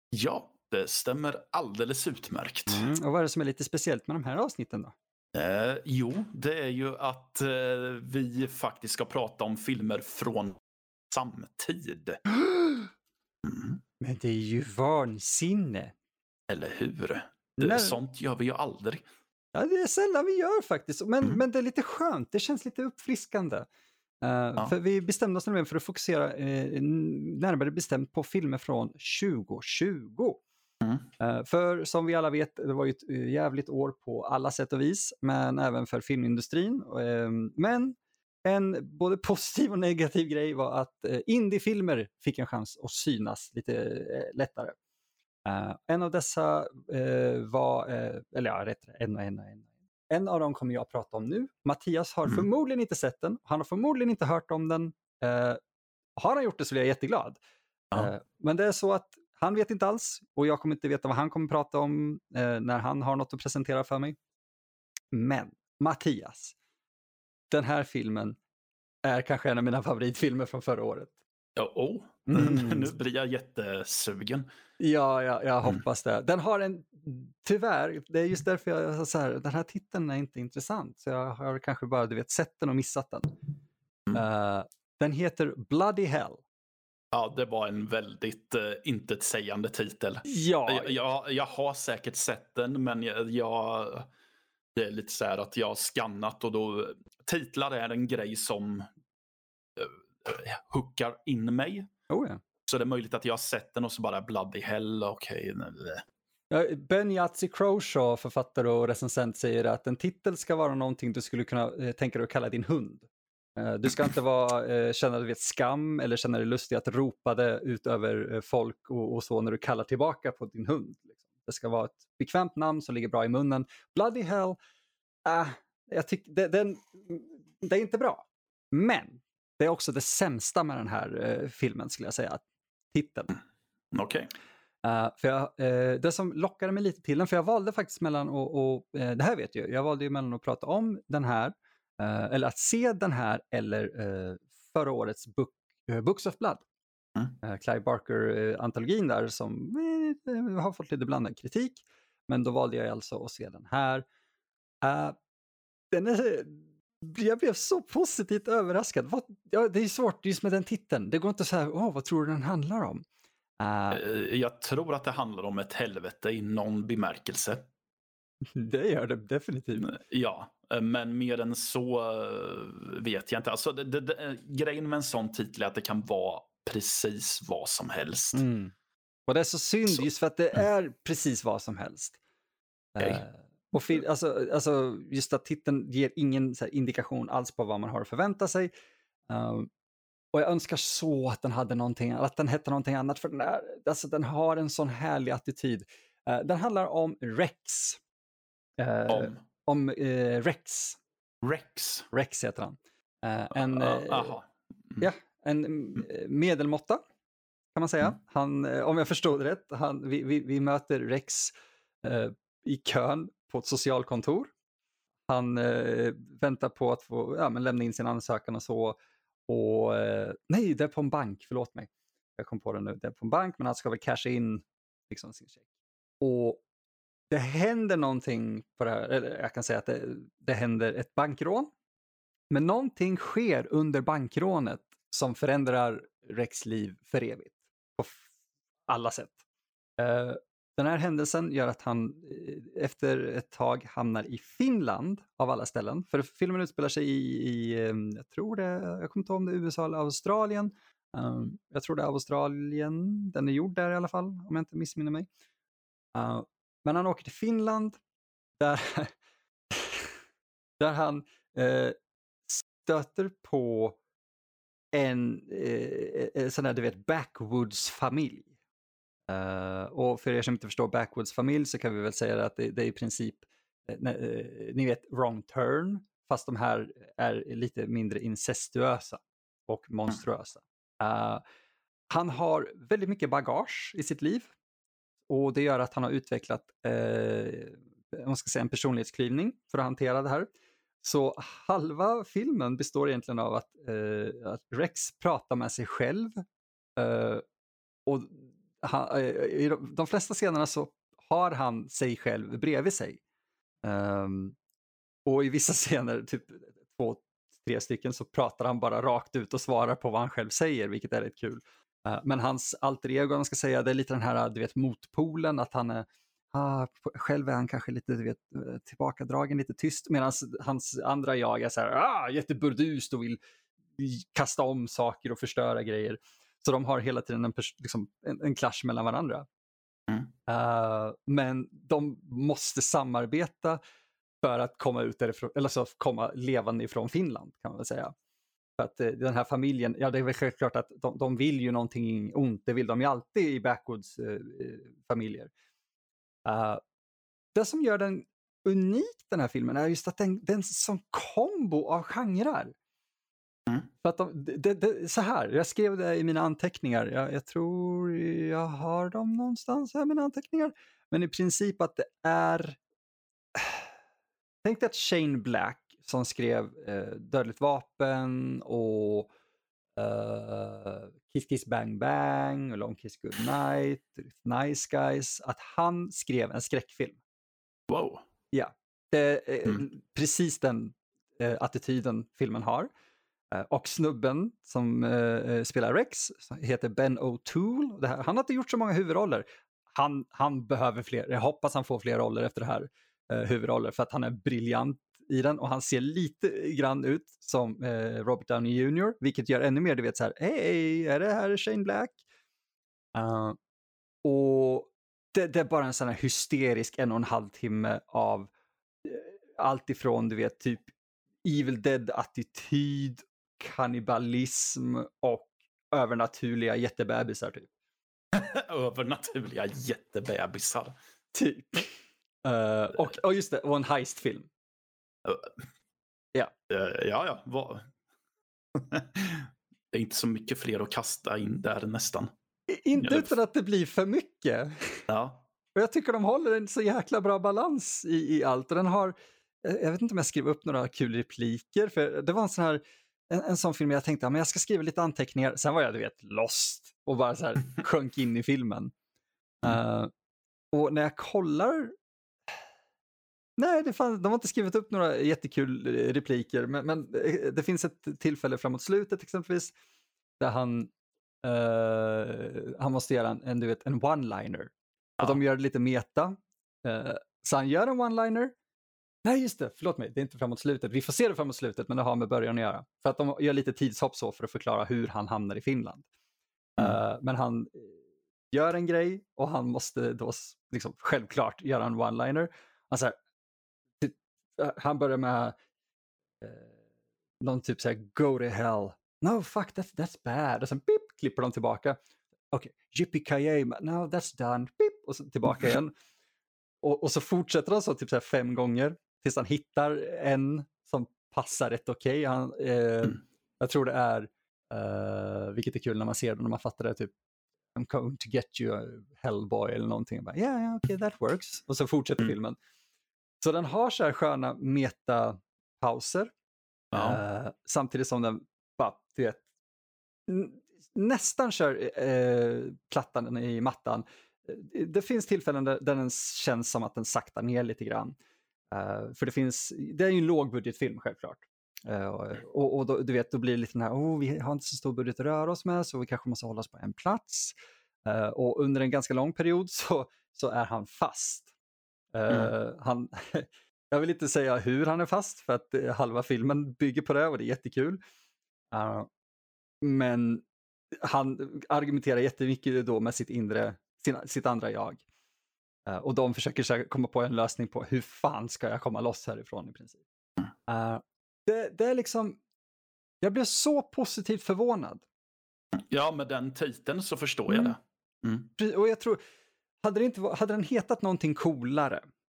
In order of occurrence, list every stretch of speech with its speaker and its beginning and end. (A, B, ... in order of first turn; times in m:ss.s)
0:00.1-0:02.9 A
0:02.7-0:04.9 B
0:05.3-0:10.6 A
0:11.1-0:12.2 A
0:12.4-0:12.9 B
0:13.4-0:13.8 A
0:14.0-0:15.9 B
0:16.5-0:19.0 A
0:17.6-0:18.0 B
0:19.5-0:23.7 B
0:24.2-0:30.4 B
0:31.2-0:44.8 B
0:45.4-0:55.6 B
0:56.2-0:57.4 B
0:57.9-1:04.2 B
1:05.1-1:06.5 B
1:07.5-1:08.4 B
1:09.0-1:11.2 B
1:11.6-1:14.5 A
1:12.3-1:12.9 B
1:14.8-1:23.4 B
1:24.1-1:26.4 B
1:27.1-1:34.1 A
1:30.2-1:31.0 B
1:34.7-1:38.9 A
1:39.8-1:41.9 A
1:42.1-1:42.4 B
1:42.7-1:46.0 A
1:46.5-2:04.6 B
2:05.2-2:13.4 B
2:13.9-2:14.3 A
2:14.8-2:26.6 B
2:27.4-2:34.0 B
2:34.8-2:35.2 B
2:35.9-2:43.0 B
2:43.6-2:44.0 B
2:43.9-2:47.6 A
2:48.5-2:49.9 B
2:49.7-2:58.4 A
2:58.3-2:58.7 B
2:59.3-3:02.2 B
3:03.0-3:08.7 B
3:09.3-3:09.7 B
3:10.3-3:18.0 B
3:18.8-3:21.0 B
3:19.1-3:19.4 A
3:21.4-3:22.1 A
3:22.1-3:24.4 B
3:23.6-3:25.0 A
3:25.0-3:27.0 B
3:27.7-3:34.5 B
3:35.3-3:45.6 B
3:46.2-3:46.6 B
3:47.3-3:51.7 B
3:52.5-3:58.2 B
3:58.9-3:59.4 B
4:00.0-4:15.3 B
4:16.1-4:18.0 B
4:18.6-4:19.1 B
4:19.7-4:20.2 B
4:20.8-4:22.0 B
4:22.5-4:24.0 B
4:24.9-4:28.5 B
4:29.3-4:41.4 B
4:42.1-4:44.5 B
4:45.3-4:50.5 B
4:51.0-4:56.4 B
4:57.0-4:57.4 B
4:58.0-5:03.2 B
5:03.8-5:04.6 B
5:05.2-5:23.4 B
5:24.0-5:29.5 B
5:30.5-5:33.8 B
5:34.4-5:38.1 B
5:38.8-5:45.5 B
5:46.4-5:46.8 B
5:47.5-5:52.7 B
5:54.0-6:02.8 B
6:03.5-6:03.9 B
6:04.6-6:09.3 B
6:10.0-6:17.2 B
6:17.9-6:18.2 A
6:18.5-6:22.9 B
6:23.5-6:42.2 B
6:43.1-6:43.6 B
6:44.2-6:48.5 B
6:49.0-6:50.9 B
6:51.4-6:57.7 B
6:58.3-7:00.9 A
7:01.3-7:04.5 B
7:05.2-7:05.5 A
7:06.7-7:07.9 A
7:08.8-7:12.3 A
7:12.7-7:15.0 B
7:13.0-7:13.3 A
7:15.1-7:15.4 A
7:15.7-7:28.9 B
7:29.6-7:30.1 B
7:30.7-7:31.9 B
7:33.6-7:39.7 B
7:40.4-7:40.9 B
7:41.4-7:48.5 B
7:49.2-7:56.1 B
7:56.8-7:58.0 B
7:58.5-8:03.2 B
8:04.0-8:05.6 B
8:06.4-8:06.8 B
8:07.4-8:12.0 B
8:12.5-8:15.9 B
8:16.8-8:27.1 B
8:27.7-8:32.6 B
8:33.4-8:36.3 B
8:36.9-8:37.2 A
8:36.9-8:39.4 B
8:40.3-8:48.2 B
8:48.7-9:01.5 B
9:02.1-9:08.0 B
9:08.7-9:09.1 B
9:09.8-9:10.4 B
9:11.0-9:15.0 B
9:15.8-9:20.0 B
9:20.7-9:22.4 B
9:23.2-9:25.0 B
9:25.7-9:28.5 A
9:27.5-9:27.8 B
9:28.6-9:29.2 B
9:29.8-9:32.0 B